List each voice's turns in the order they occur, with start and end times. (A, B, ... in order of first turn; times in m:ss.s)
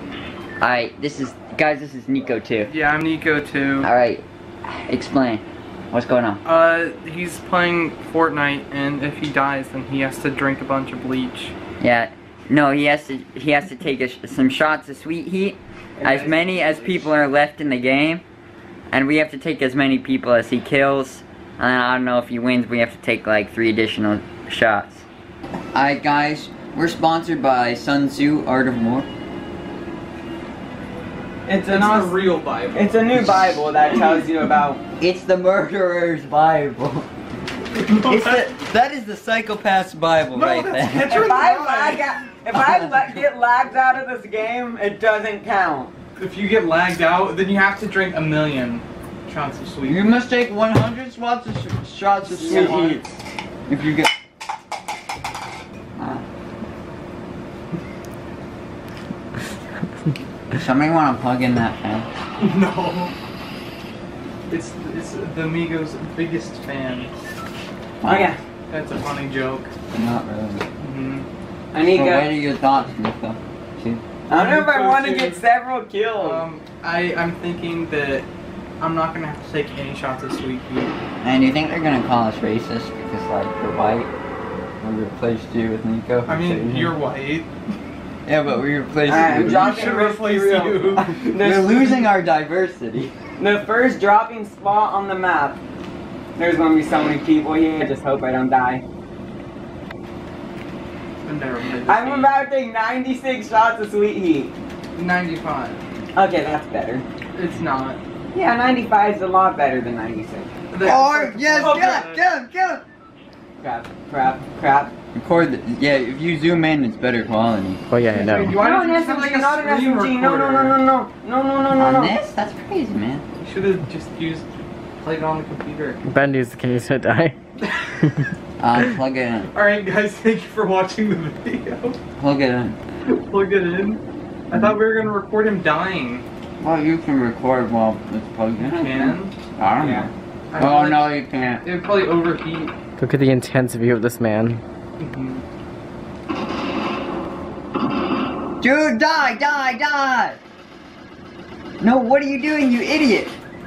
0:00.6-0:02.7 A
0:02.7-0:03.9 B
0:03.8-0:06.4 A
0:06.4-0:11.6 B
0:11.8-0:18.2 A
0:16.0-0:16.9 B
0:18.9-0:25.0 A
0:25.7-0:29.1 A
0:31.5-0:32.2 C
0:31.7-0:33.2 B
0:32.7-0:34.8 C
0:35.0-0:37.1 A
0:37.7-0:38.5 B
0:38.0-0:41.2 A
0:40.3-0:42.1 B
0:41.1-0:45.9 C
0:42.6-0:43.0 A
0:46.2-0:50.1 B
0:49.8-0:53.1 A
0:52.4-0:53.1 B
0:52.4-0:52.9 C
0:53.7-0:54.1 A
0:56.0-0:56.2 A
1:00.5-1:02.1 A
1:02.4-1:03.1 B
1:04.5-1:07.1 B
1:08.0-1:08.4 A
1:08.0-1:08.4 C
1:08.7-1:09.7 B
1:09.9-1:10.7 A
1:10.8-1:11.3 B
1:11.7-1:12.4 C
1:11.8-1:14.0 A
1:14.3-1:16.4 C
1:14.3-1:15.4 B
1:16.2-1:18.3 B
1:18.8-1:21.0 B
1:21.2-1:24.1 A
1:24.8-1:27.0 A
1:26.3-1:27.5 B
1:28.3-1:30.0 A
1:29.1-1:32.1 C
1:29.2-1:31.4 B
1:31.4-1:33.1 A
1:33.4-1:35.6 C
1:36.4-1:38.8 C
1:41.2-1:42.4 B
1:41.9-1:44.5 C
1:45.0-1:45.8 B
1:46.2-1:47.0 C
1:47.4-1:48.0 B
1:48.3-1:50.5 C
1:50.7-1:52.2 B
1:50.8-1:52.8 A
1:51.6-1:52.1 C
1:53.6-1:55.0 C
1:55.1-1:57.8 A
1:57.9-1:58.6 D
1:58.1-2:00.8 B
1:58.5-2:02.2 C
2:01.8-2:03.2 A
2:03.4-2:04.5 B
2:05.0-2:06.0 B
2:06.0-2:07.4 D
2:08.6-2:09.5 A
2:09.5-2:12.0 B
2:12.2-2:12.8 A
2:13.1-2:16.3 B
2:16.6-2:21.7 A
2:18.6-2:19.3 B
2:19.8-2:20.1 C
2:20.5-2:22.7 B
2:23.0-2:24.6 D
2:25.0-2:25.4 B
2:28.6-2:30.4 A
2:31.8-2:33.4 A